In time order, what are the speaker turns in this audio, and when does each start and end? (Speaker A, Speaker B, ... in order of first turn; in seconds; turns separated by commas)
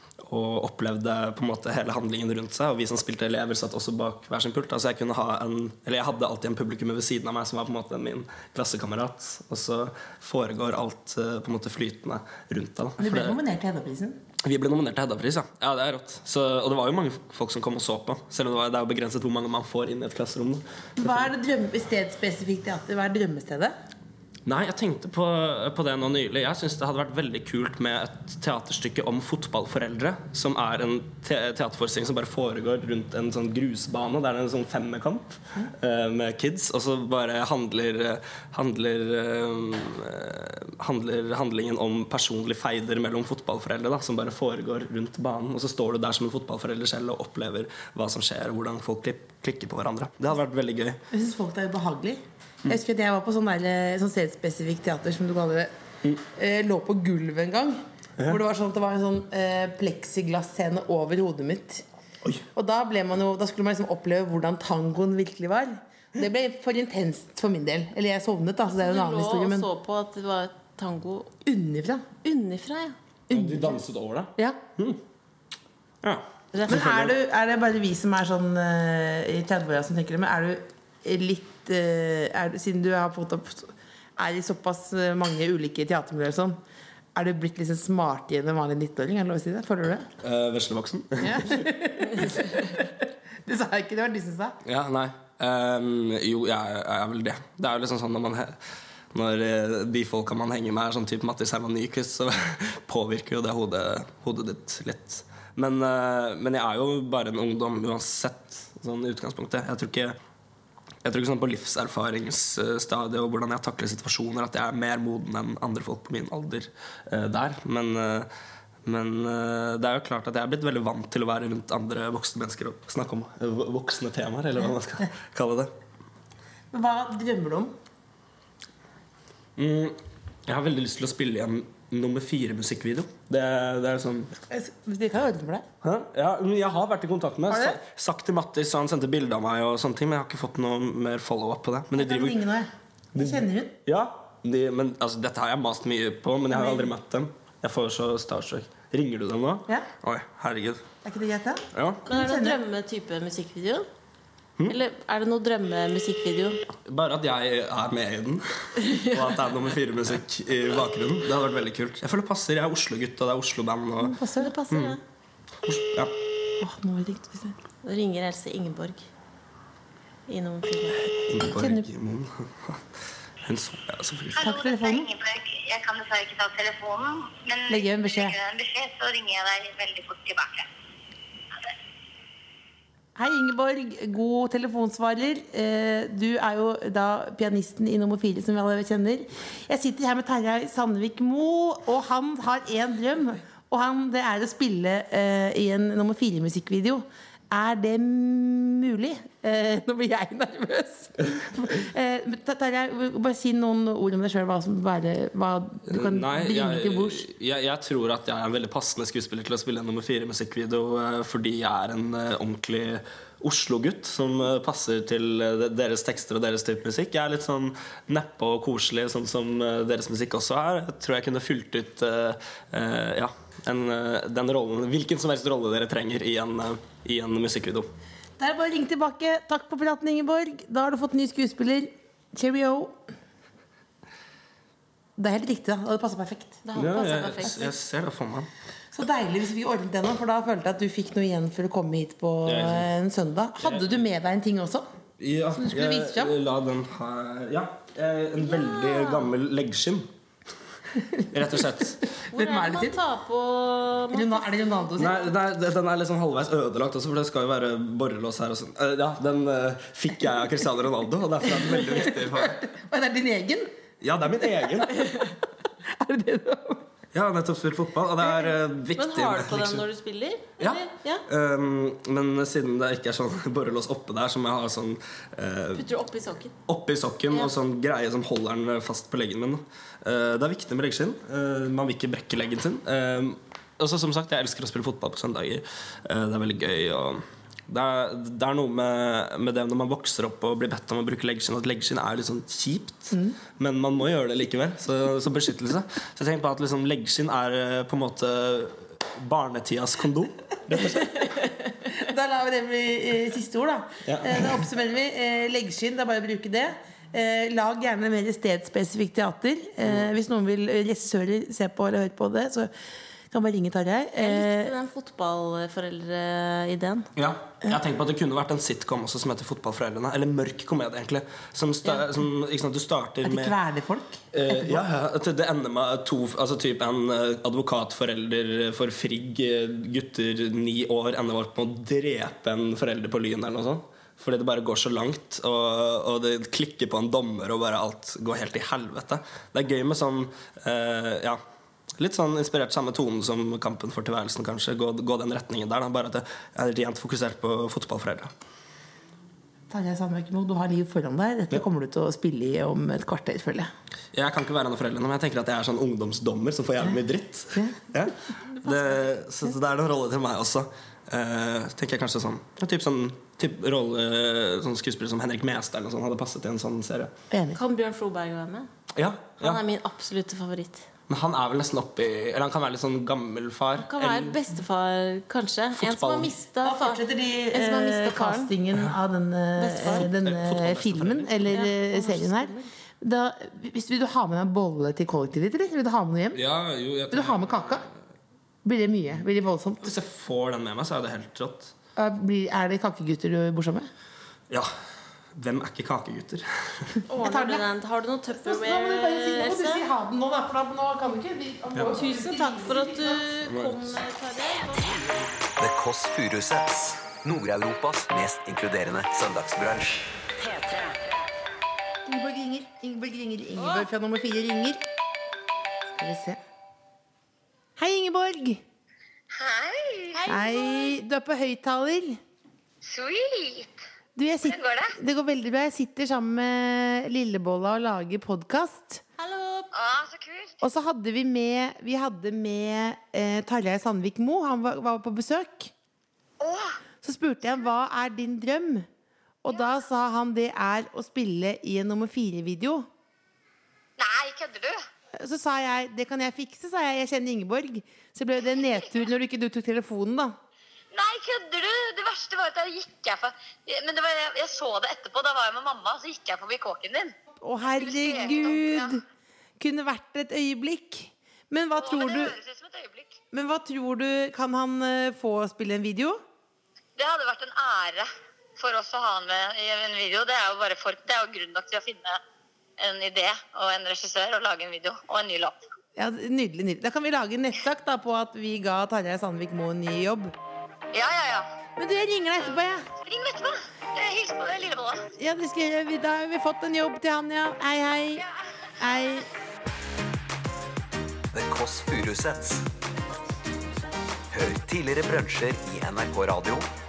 Speaker A: 0.2-13.4, Speaker B: 13.0-14.2, Speaker A: 14.4-21.3, Speaker B: 21.0-23.7, Speaker A: 24.4-51.0, Speaker B: 51.1-55.7, Speaker B: 56.3-61.9, Speaker B: 62.5-69.7, Speaker C: 68.7-71.3, Speaker B: 71.4-72.0, Speaker C: 72.2-73.0, Speaker B: 73.3-73.8, Speaker A: 73.3-75.0, Speaker A: 76.0-77.1, Speaker B: 76.5-86.6, Speaker B: 87.1-90.1, Speaker A: 90.2-91.6, Speaker B: 91.2-94.6, Speaker A: 94.6-98.6, Speaker A: 99.1-110.2, Speaker A: 111.0-118.3, Speaker A: 118.9-125.7, Speaker B: 126.7-127.7, Speaker A: 129.6-134.3, Speaker B: 134.5-135.7, Speaker A: 135.8-142.4, Speaker B: 137.5-137.8, Speaker B: 141.9-143.8, Speaker A: 143.1-150.8, Speaker B: 146.5-146.9, Speaker B: 151.0-152.6, Speaker A: 151.7-152.0, Speaker C: 152.1-153.9, Speaker C: 154.7-156.6, Speaker A: 156.8-164.2, Speaker C: 158.8-159.1, Speaker B: 164.0-164.5, Speaker C: 164.4-165.0, Speaker A: 164.7-165.0, Speaker A: 165.6-166.1, Speaker B: 166.6-167.6, Speaker C: 167.8-169.1, Speaker C: 170.3-171.0, Speaker A: 171.1-172.8, Speaker B: 171.4-171.9, Speaker A: 173.4-174.5, Speaker D: 174.4-180.7, Speaker B: 174.4-175.1, Speaker B: 177.7-178.4, Speaker B: 183.2-207.2, Speaker A: 205.9-227.9, Speaker B: 228.4-233.0, Speaker B: 235.2-236.6, Speaker C: 236.6-237.7, Speaker A: 236.7-238.5, Speaker B: 237.4-237.7, Speaker B: 238.9-244.9, Speaker A: 242.4-242.9, Speaker A: 243.6-243.9, Speaker A: 245.2-250.1, Speaker B: 245.5-246.4, Speaker C: 248.4-249.3, Speaker A: 251.2-252.1, Speaker B: 252.2-253.0, Speaker C: 252.3-255.0, Speaker B: 254.1-255.3, Speaker A: 255.0-262.6, Speaker B: 261.5-263.7, Speaker A: 264.0-265.1, Speaker B: 265.0-265.3, Speaker B: 265.8-266.9, Speaker A: 267.1-269.9, Speaker C: 268.9-271.2, Speaker A: 270.6-275.9, Speaker C: 275.7-276.5, Speaker A: 276.7-301.3, Speaker B: 293.1-293.4, Speaker B: 301.9-312.7, Speaker A: 304.0-304.7, Speaker B: 313.3-314.7, Speaker C: 314.2-317.1, Speaker A: 317.1-323.6, Speaker B: 323.2-324.8, Speaker A: 324.3-341.4, Speaker A: 342.0-348.3, Speaker B: 349.7-353.7, Speaker A: 354.1-367.1, Speaker C: 358.6-359.0, Speaker B: 367.3-367.6, Speaker C: 367.5-368.7, Speaker A: 368.9-369.6, Speaker C: 369.4-370.9, Speaker A: 371.1-374.4, Speaker C: 373.8-377.0, Speaker A: 375.8-376.3, Speaker B: 376.6-386.4, Speaker C: 377.5-378.5, Speaker C: 379.6-380.1, Speaker A: 379.9-381.6, Speaker C: 381.5-382.7, Speaker A: 386.4-387.9, Speaker B: 387.1-387.9, Speaker B: 388.6-389.9, Speaker A: 389.8-391.7, Speaker B: 391.9-393.9, Speaker A: 395.4-397.0, Speaker C: 397.1-399.8, Speaker B: 397.2-397.7, Speaker B: 398.3-403.3, Speaker C: 401.9-405.2, Speaker A: 403.4-404.0, Speaker E: 405.6-410.9, Speaker B: 412.1-414.8, Speaker B: 415.9-416.4, Speaker B: 417.8-418.6, Speaker D: 419.3-420.3, Speaker C: 420.1-420.9, Speaker B: 420.3-422.2, Speaker D: 422.8-423.8, Speaker B: 424.1-429.1, Speaker D: 424.4-424.9, Speaker C: 429.2-429.7, Speaker D: 429.7-430.6, Speaker B: 430.6-435.7, Speaker D: 436.4-436.8, Speaker B: 437.0-438.9, Speaker B: 439.4-442.9, Speaker D: 444.0-444.8, Speaker B: 445.1-450.4, Speaker D: 448.6-448.9, Speaker D: 450.9-457.1, Speaker B: 457.4-459.0, Speaker D: 457.7-459.0, Speaker B: 459.6-462.4, Speaker D: 461.8-463.2, Speaker B: 463.3-466.2, Speaker D: 467.0-472.2, Speaker D: 472.8-475.6, Speaker B: 475.9-480.3, Speaker D: 480.9-481.5, Speaker B: 481.8-482.9, Speaker D: 483.0-485.1, Speaker B: 485.1-489.3, Speaker E: 491.3-492.6, Speaker E: 494.3-496.7